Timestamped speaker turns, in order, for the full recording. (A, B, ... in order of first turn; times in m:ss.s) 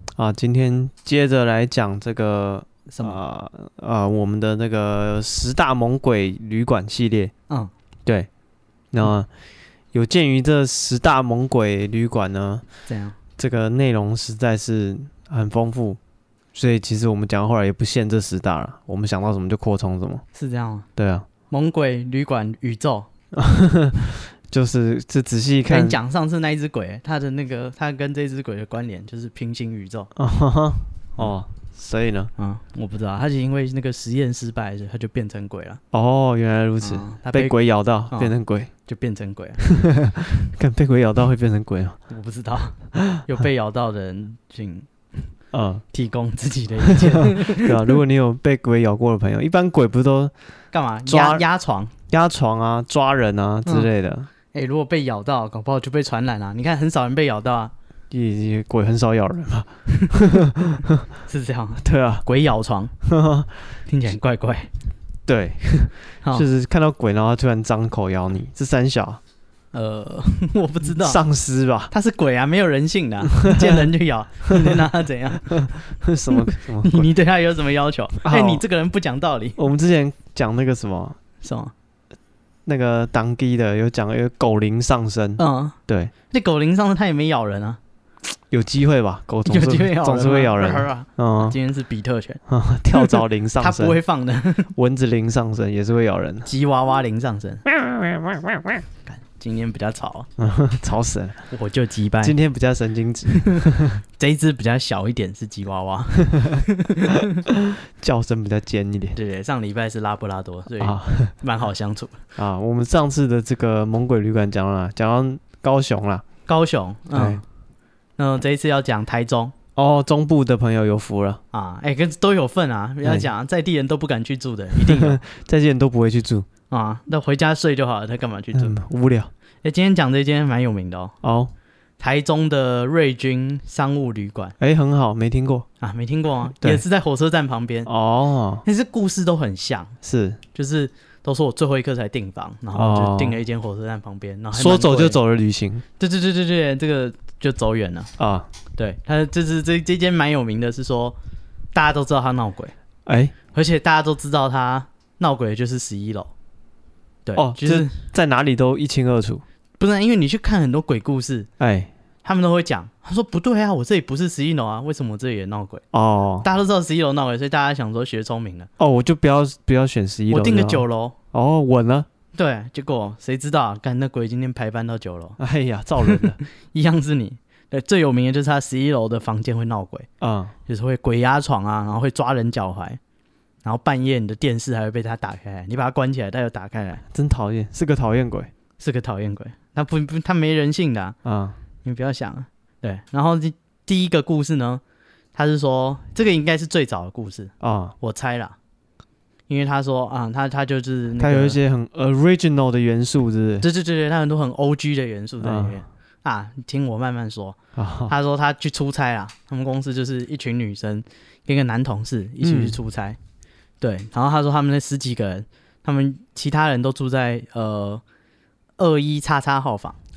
0:00.2-0:07.3 A
0:02.9-0:03.2 B
0:08.9-0:09.3 A
0:09.9-0:12.6 A
0:12.9-0:13.2 B
0:13.4-0:16.0 A
0:16.5-0:20.2 A
0:20.3-0:20.9 B
0:21.0-0:21.2 A
0:21.5-0:23.1 B
0:23.3-0:26.0 A
0:25.7-0:30.1 B
0:30.1-0:32.3 A
0:32.4-0:35.8 B
0:35.9-0:38.7 A
0:36.8-0:37.6 B
0:38.8-0:39.6 B
0:39.6-0:42.0 A
0:42.1-0:45.2 B
0:43.0-0:43.2 A
0:45.5-0:45.8 A
0:45.9-0:47.7 B
0:46.9-0:50.3 A
0:50.7-0:51.9 B
0:51.0-0:51.4 A
0:52.1-0:54.3 A
0:54.5-0:57.7 B
0:58.1-1:01.0 A
0:59.9-1:00.2 B
1:01.3-1:02.9 B
1:01.8-1:02.2 A
1:03.0-1:03.8 A
1:03.9-1:04.7 B
1:05.2-1:09.2 A
1:09.7-1:11.2 B
1:10.8-1:11.9 A
1:11.9-1:15.8 B
1:13.4-1:13.9 A
1:14.5-1:14.9 A
1:15.4-1:17.1 A
1:16.3-1:19.6 B
1:18.2-1:18.6 A
1:19.6-1:21.2 A
1:21.4-1:21.7 B
1:22.6-1:26.1 A
1:25.4-1:25.8 B
1:26.3-1:27.8 B
1:28.5-1:31.6 A
1:29.5-1:32.4 B
1:32.5-1:34.0 A
1:32.9-1:34.7 B
1:34.7-1:36.5 A
1:36.4-1:37.6 B
1:37.7-1:38.8 A
1:39.1-1:40.3 B
1:40.4-1:41.4 A
1:41.5-1:42.3 B
1:42.2-1:44.0 A
1:43.3-1:43.6 B
1:44.2-1:47.4 B
1:46.3-1:46.6 A
1:47.5-1:49.2 A
1:49.1-1:52.2 B
1:50.8-1:51.3 A
1:52.4-1:56.2 A
1:56.5-1:57.4 B
1:57.1-1:57.4 A
1:58.2-1:59.5 B
1:59.8-2:01.4 A
2:01.5-2:05.2 B
2:04.8-2:06.4 A
2:06.7-2:08.8 B
2:08.5-2:09.3 A
2:09.6-2:11.1 B
2:11.2-2:11.5 A
2:12.0-2:14.5 B
2:14.6-2:15.7 A
2:15.8-2:17.9 B
2:17.8-2:18.6 A
2:18.6-2:19.9 B
2:20.0-2:20.4 A
2:20.5-2:25.2 B
2:22.7-2:23.4 A
2:24.5-2:25.8 A
2:26.0-2:28.1 B
2:28.2-2:28.5 A
2:28.8-2:31.2 B
2:31.7-2:32.7 B
2:33.0-2:33.3 A
2:33.5-2:36.3 B
2:37.2-2:38.0 B
2:37.3-2:39.4 A
2:39.8-2:41.5 B
2:41.6-2:41.9 A
2:42.2-2:45.8 B
2:45.9-2:46.4 A
2:46.4-2:48.7 B
2:48.8-2:52.1 A
2:50.3-2:51.2 B
2:52.3-2:55.4 B
2:55.4-2:56.4 A
2:56.0-3:00.1 B
3:00.2-3:00.5 A
3:00.7-3:03.0 B
3:03.6-3:07.0 B
3:07.1-3:08.5 A
3:08.8-3:11.2 B
3:11.2-3:11.6 A
3:11.8-3:14.8 B
3:15.3-3:18.5 B
3:17.6-3:17.9 A
3:19.5-3:21.6 B
3:21.2-3:23.6 A
3:23.6-3:27.6 B
3:25.4-3:25.8 A
3:27.8-3:28.1 A
3:28.1-3:33.2 B
3:32.4-3:32.8 A
3:33.8-3:38.0 B
3:38.8-3:40.0 B